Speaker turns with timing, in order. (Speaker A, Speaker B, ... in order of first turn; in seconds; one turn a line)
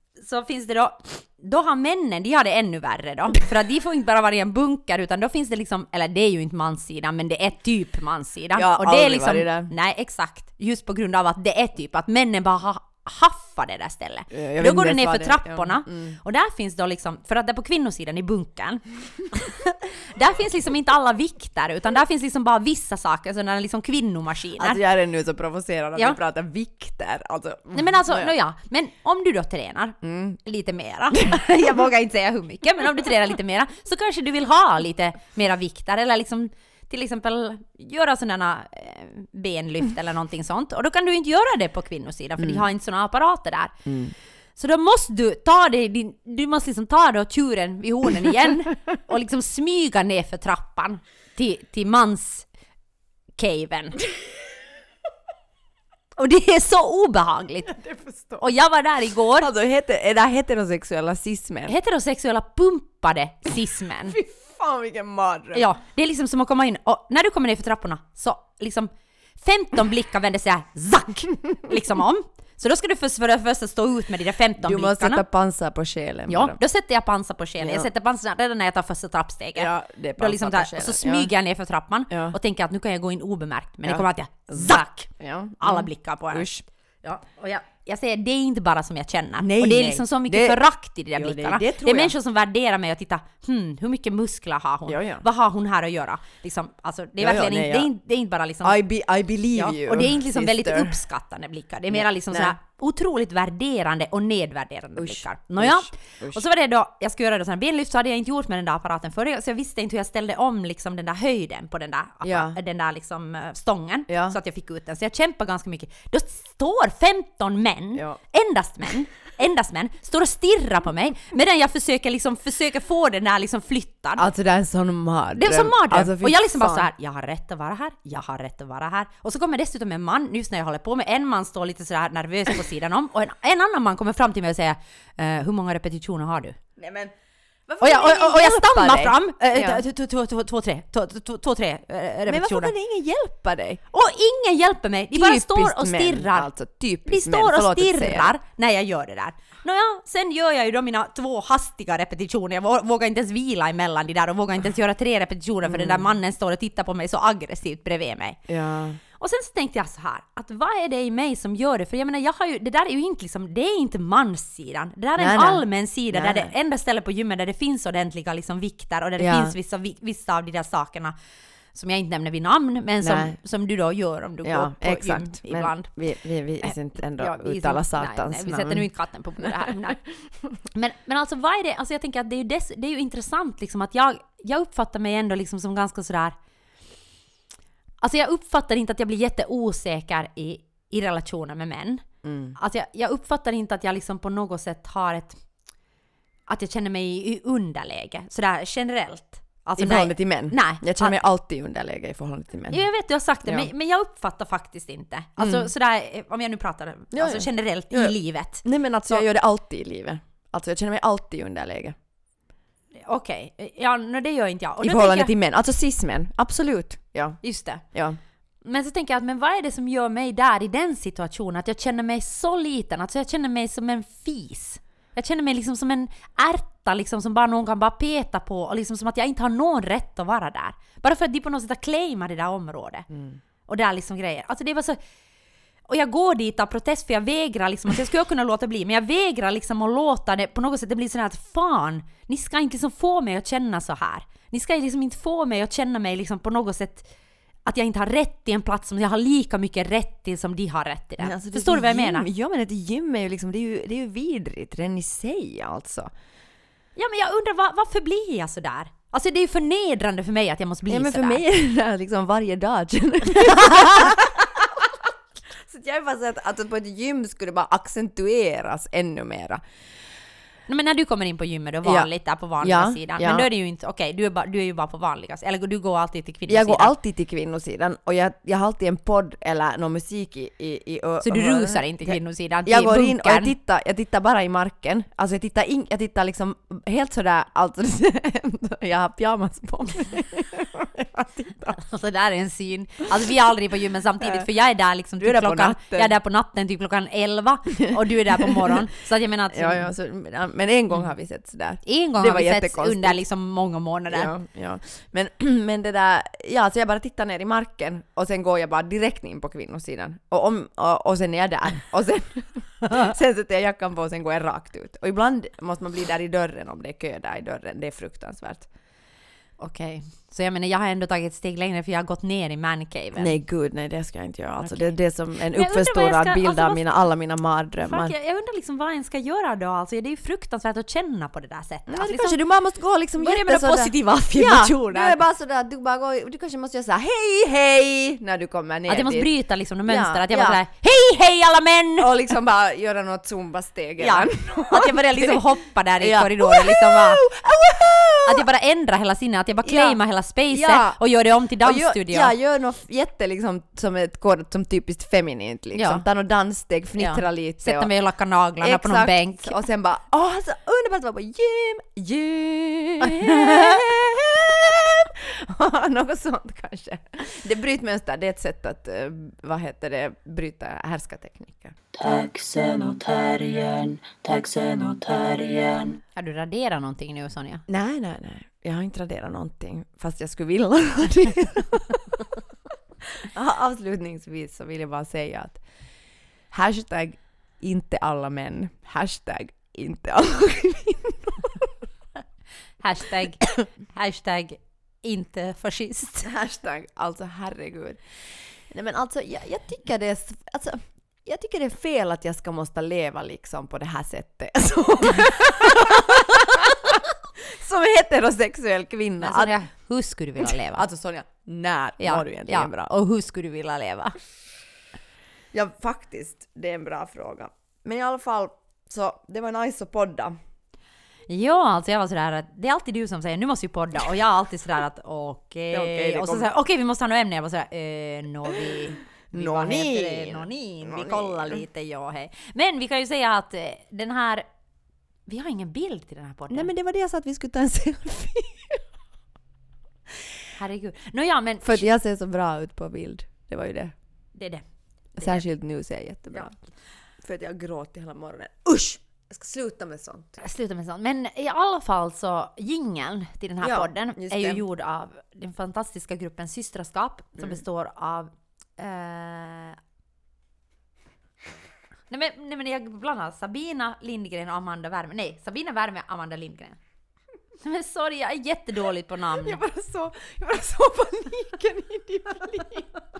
Speaker A: 0.1-24.8
Speaker B: 8.6-9.7
Speaker B: 14.3-16.2
Speaker B: 24.6-28.3
Speaker A: 27.7-43.8
Speaker B: 30.0-30.4
Speaker B: 42.4-42.6
Speaker B: 43.9-44.1
Speaker A: 44.5-52.5
Speaker A: 53.3-54.0
Speaker A: 56.2-57.8
Speaker B: 57.8-58.5
Speaker A: 58.4-59.5
Speaker B: 59.3-61.7
Speaker A: 61.7-64.2
Speaker B: 64.1-65.7
Speaker A: 65.5-75.2
Speaker B: 74.6-76.6
Speaker A: 76.3-86.5
Speaker B: 77.6-77.9
Speaker B: 79.5-81.3
Speaker B: 82.1-82.3
Speaker B: 83.8-86.6
Speaker A: 87.0-98.8
Speaker B: 89.5-92.1
Speaker B: 94.9-95.2
Speaker B: 97.2-97.9
Speaker B: 98.6-101.0
Speaker A: 99.5-124.2
Speaker B: 101.9-102.5
Speaker B: 105.0-106.4
Speaker B: 112.2-112.6
Speaker B: 114.1-114.4
Speaker B: 124.2-126.9
Speaker A: 125.3-136.6
Speaker B: 136.8-137.1
Speaker B: 137.7-139.8
Speaker A: 137.8-142.7
Speaker B: 142.3-143.8
Speaker A: 143.9-146.5
Speaker B: 145.1-148.3
Speaker A: 147.1-158.4
Speaker B: 155.7-156.1
Speaker B: 158.5-159.0
Speaker A: 159.2-171.1
Speaker B: 165.2-166.5
Speaker B: 169.2-169.5
Speaker A: 171.7-175.9
Speaker B: 173.0-173.3
Speaker B: 174.4-178.9
Speaker A: 176.6-180.0
Speaker A: 180.6-186.4
Speaker A: 188.0-192.0
Speaker B: 192.2-192.6
Speaker A: 192.6-195.4
Speaker A: 196.5-201.2
Speaker B: 199.8-202.8
Speaker A: 202.7-209.3
Speaker B: 205.4-205.7
Speaker B: 207.1-211.9
Speaker A: 213.1-215.3
Speaker B: 214.8-218.2
Speaker A: 217.4-217.8
Speaker A: 218.6-233.1
Speaker B: 233.1-233.4
Speaker A: 233.7-235.0
Speaker A: 235.9-247.1
Speaker A: 247.6-252.2
Speaker B: 251.2-256.1
Speaker A: 256.9-261.4
Speaker B: 260.9-264.9
Speaker A: 263.4-264.2
Speaker B: 265.6-269.6
Speaker A: 270.7-276.9
Speaker B: 272.6-273.5
Speaker B: 276.5-291.8
Speaker A: 281.2-283.5
Speaker A: 291.7-299.9
Speaker B: 295.2-296.1
Speaker B: 297.8-298.9
Speaker B: 299.5-303.2
Speaker A: 301.9-304.3
Speaker B: 304.1-318.7
Speaker A: 319.6-323.3
Speaker B: 323.1-328.1
Speaker A: 324.6-326.8
Speaker A: 327.9-332.4
Speaker B: 331.9-339.3
Speaker A: 333.2-335.2
Speaker A: 338.9-342.3
Speaker B: 339.9-340.6
Speaker B: 342.0-345.4
Speaker A: 344.0-347.2
Speaker B: 346.0-348.5
Speaker A: 348.2-352.3
Speaker B: 349.6-350.0
Speaker B: 350.5-357.9
Speaker A: 355.7-356.0
Speaker A: 357.0-359.6
Speaker B: 358.6-371.8
Speaker A: 363.0-363.7
Speaker C: 371.9-376.0
Speaker A: 376.1-377.6
Speaker B: 377.7-382.3
Speaker B: 383.2-385.6
Speaker B: 386.5-391.7
Speaker A: 392.8-396.3
Speaker B: 396.2-398.0
Speaker B: 398.7-409.5
Speaker A: 409.2-410.8
Speaker B: 410.6-412.9
Speaker A: 412.0-414.1
Speaker B: 415.5-420.4
Speaker A: 421.3-434.5
Speaker B: 425.7-426.5
Speaker B: 429.3-431.6
Speaker A: 435.3-436.7
Speaker B: 436.5-438.8
Speaker A: 440.6-441.8
Speaker B: 441.6-443.9
Speaker A: 444.3-444.6
Speaker A: 445.1-445.4
Speaker B: 445.2-446.6
Speaker B: 447.2-450.4
Speaker A: 450.4-459.8
Speaker B: 453.6-454.6
Speaker A: 462.1-466.8
Speaker A: 467.6-469.6
Speaker B: 469.4-472.9